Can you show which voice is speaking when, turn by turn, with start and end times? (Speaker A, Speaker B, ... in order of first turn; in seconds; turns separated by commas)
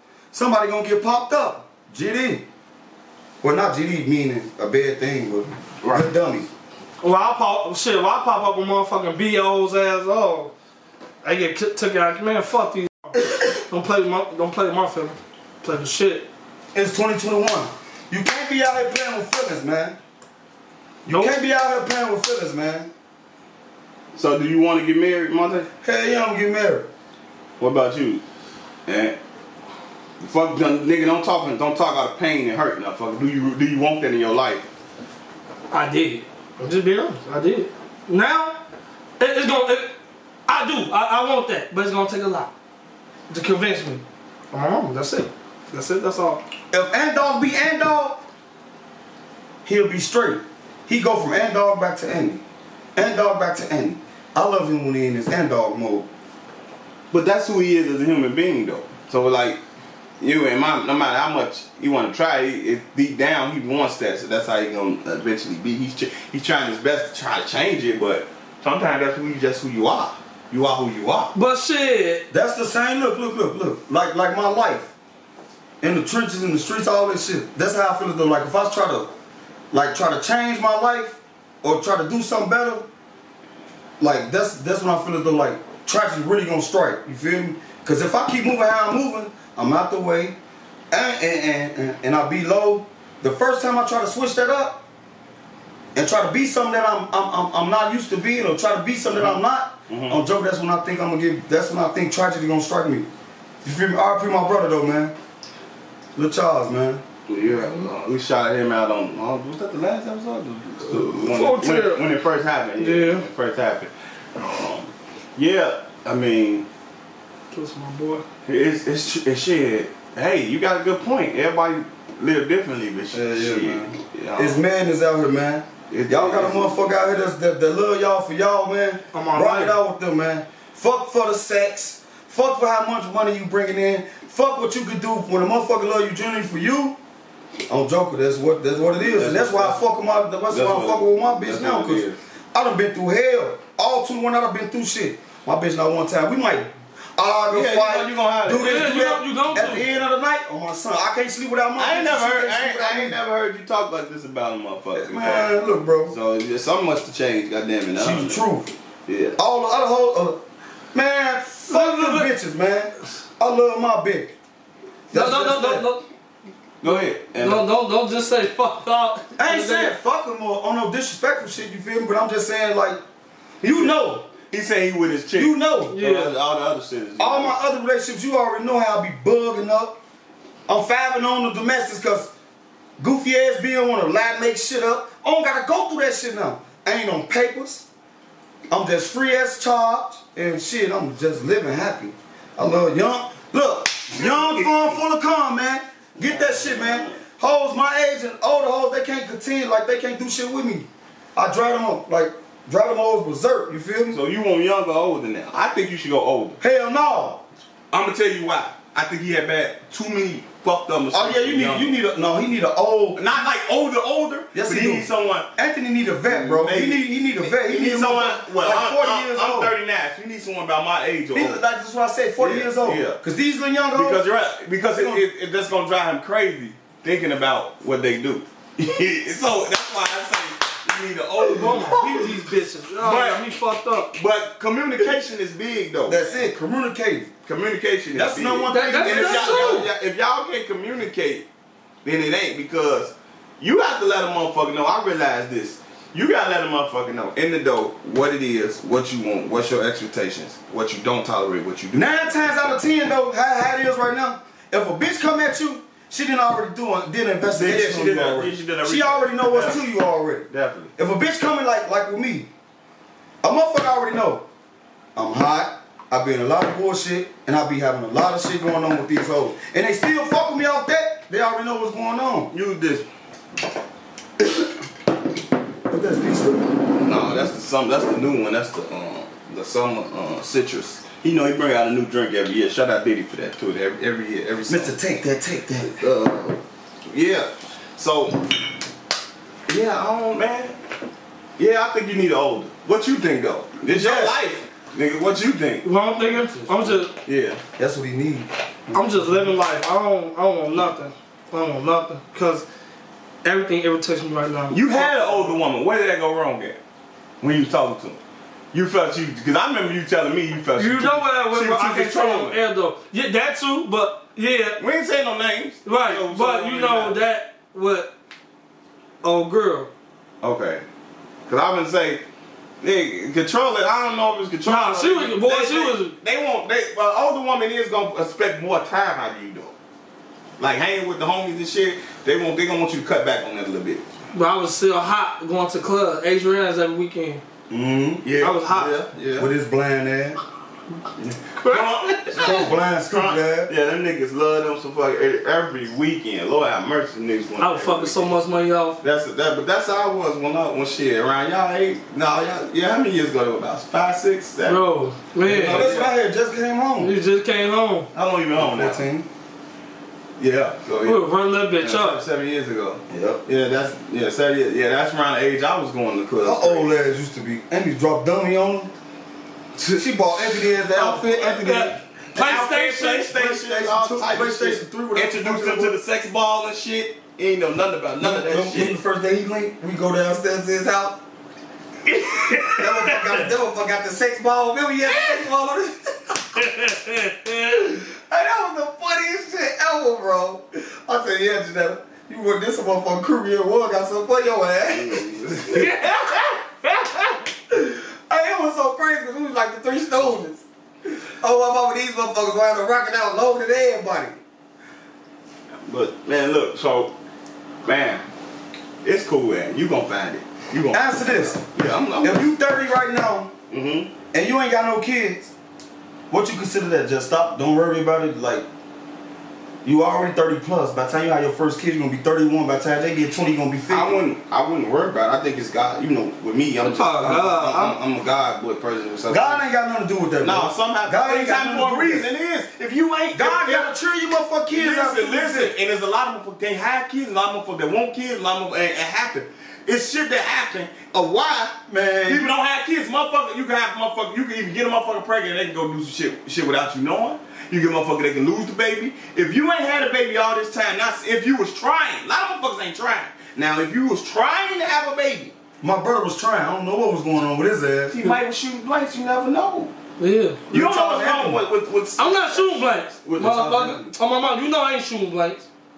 Speaker A: 0.3-2.5, Speaker A: 3.4-6.5, Speaker B: 5.8-6.1, Speaker C: 7.0-10.5, Speaker C: 11.2-16.3, Speaker A: 16.7-20.0, Speaker A: 21.1-22.9, Speaker C: 21.1-21.4, Speaker B: 24.2-25.7, Speaker A: 25.8-26.9, Speaker B: 27.6-28.2, Speaker B: 28.9-29.2, Speaker B: 30.2-34.7, Speaker C: 35.7-38.6, Speaker C: 39.2-39.9, Speaker C: 40.5-42.5, Speaker C: 43.3-46.4, Speaker A: 46.7-48.2, Speaker A: 49.6-52.4, Speaker A: 53.0-56.1, Speaker B: 57.1-59.6, Speaker B: 60.2-71.3, Speaker C: 71.3-72.3, Speaker A: 72.3-74.9, Speaker A: 75.8-79.1, Speaker A: 79.7-82.9, Speaker A: 84.0-90.4, Speaker A: 90.9-94.8, Speaker A: 96.0-103.1, Speaker B: 99.1-100.2, Speaker A: 103.6-105.2, Speaker A: 106.2-107.0, Speaker B: 107.3-116.7, Speaker C: 111.1-112.0, Speaker C: 112.8-113.2, Speaker C: 117.5-118.2, Speaker B: 118.5-124.6, Speaker A: 123.1-137.0, Speaker B: 125.9-126.8, Speaker C: 129.1-129.8, Speaker A: 137.7-153.2, Speaker B: 139.0-139.8, Speaker B: 140.5-142.2, Speaker B: 147.5-148.9, Speaker C: 148.5-149.9, Speaker B: 151.8-155.6, Speaker A: 154.9-156.2, Speaker B: 156.1-158.4, Speaker A: 158.0-158.7, Speaker B: 159.1-159.4, Speaker A: 159.4-160.4, Speaker A: 160.9-164.3, Speaker C: 161.7-162.3, Speaker A: 165.1-165.9, Speaker C: 165.1-166.0, Speaker B: 166.8-167.7, Speaker C: 166.9-169.9, Speaker A: 169.4-173.0, Speaker A: 173.6-174.3, Speaker B: 173.6-177.6, Speaker A: 175.3-176.0, Speaker C: 175.9-176.3, Speaker A: 177.2-180.0, Speaker A: 180.7-182.3, Speaker A: 183.0-187.9, Speaker A: 188.7-204.2, Speaker B: 194.2-194.7, Speaker B: 196.2-197.2, Speaker B: 204.1-206.6, Speaker A: 206.6-207.4, Speaker B: 207.9-212.0, Speaker A: 211.1-213.2, Speaker B: 213.2-215.5, Speaker A: 214.5-219.7, Speaker B: 216.3-221.6, Speaker A: 221.3-224.2, Speaker B: 222.4-223.2, Speaker B: 223.9-232.1, Speaker A: 224.9-225.2, Speaker C: 231.5-234.1, Speaker A: 231.7-232.0, Speaker B: 233.0-233.4, Speaker B: 234.1-236.3, Speaker A: 236.1-237.3, Speaker B: 237.4-241.4, Speaker A: 238.1-239.9, Speaker C: 238.7-239.9, Speaker B: 242.0-252.2, Speaker A: 251.9-262.5, Speaker B: 257.6-259.8, Speaker B: 260.5-260.9, Speaker A: 263.4-264.5, Speaker A: 265.2-272.5, Speaker B: 272.5-273.1, Speaker A: 275.9-276.7, Speaker B: 277.0-284.9, Speaker A: 284.7-286.1, Speaker B: 285.9-288.5, Speaker B: 289.7-290.8, Speaker B: 291.6-295.9, Speaker A: 293.8-294.4, Speaker C: 295.8-297.1, Speaker B: 297.1-297.6, Speaker A: 297.8-299.3, Speaker C: 298.9-302.7, Speaker C: 303.4-305.6, Speaker B: 304.7-306.8, Speaker B: 307.4-308.2, Speaker B: 308.7-312.6, Speaker C: 310.8-314.8, Speaker B: 314.8-317.2, Speaker C: 315.9-318.1, Speaker C: 319.2-319.9, Speaker B: 320.4-320.8, Speaker B: 321.5-322.2, Speaker B: 322.8-329.7, Speaker C: 324.6-326.1, Speaker B: 330.6-334.0, Speaker C: 334.3-337.4, Speaker A: 337.7-338.3, Speaker B: 338.2-339.5, Speaker C: 338.4-339.0, Speaker A: 339.4-340.4, Speaker C: 341.6-342.6, Speaker B: 341.6-348.3, Speaker A: 342.4-343.7, Speaker C: 347.6-349.0, Speaker B: 349.0-354.9, Speaker C: 354.6-355.9, Speaker B: 355.5-356.1, Speaker A: 355.5-357.1, Speaker C: 357.0-358.1, Speaker B: 358.1-359.0, Speaker A: 358.6-359.3, Speaker B: 360.4-361.2, Speaker C: 361.0-362.2, Speaker B: 361.8-366.9, Speaker A: 363.1-363.4, Speaker A: 366.4-368.9, Speaker A: 369.8-372.0, Speaker C: 370.9-373.3, Speaker B: 372.4-379.0, Speaker A: 373.3-376.0, Speaker A: 378.2-381.2, Speaker C: 382.1-383.3, Speaker A: 382.7-386.6, Speaker C: 386.6-387.8, Speaker A: 387.7-400.6, Speaker B: 395.0-395.9, Speaker C: 395.7-397.3, Speaker A: 401.4-404.4, Speaker B: 405.9-407.1, Speaker B: 407.9-408.2, Speaker B: 409.0-412.5, Speaker A: 410.9-411.7, Speaker A: 412.2-413.5, Speaker B: 413.7-414.1, Speaker A: 414.3-415.5, Speaker A: 416.3-418.7, Speaker A: 419.8-424.2, Speaker B: 423.9-429.6, Speaker C: 426.8-428.0, Speaker A: 429.3-432.3, Speaker B: 430.4-433.9, Speaker A: 433.3-435.7, Speaker B: 434.7-455.5, Speaker A: 441.9-442.5, Speaker A: 455.8-458.4, Speaker B: 458.1-459.9, Speaker C: 460.2-460.6, Speaker A: 460.7-461.6, Speaker B: 460.7-463.8, Speaker C: 462.2-465.7, Speaker A: 463.4-464.2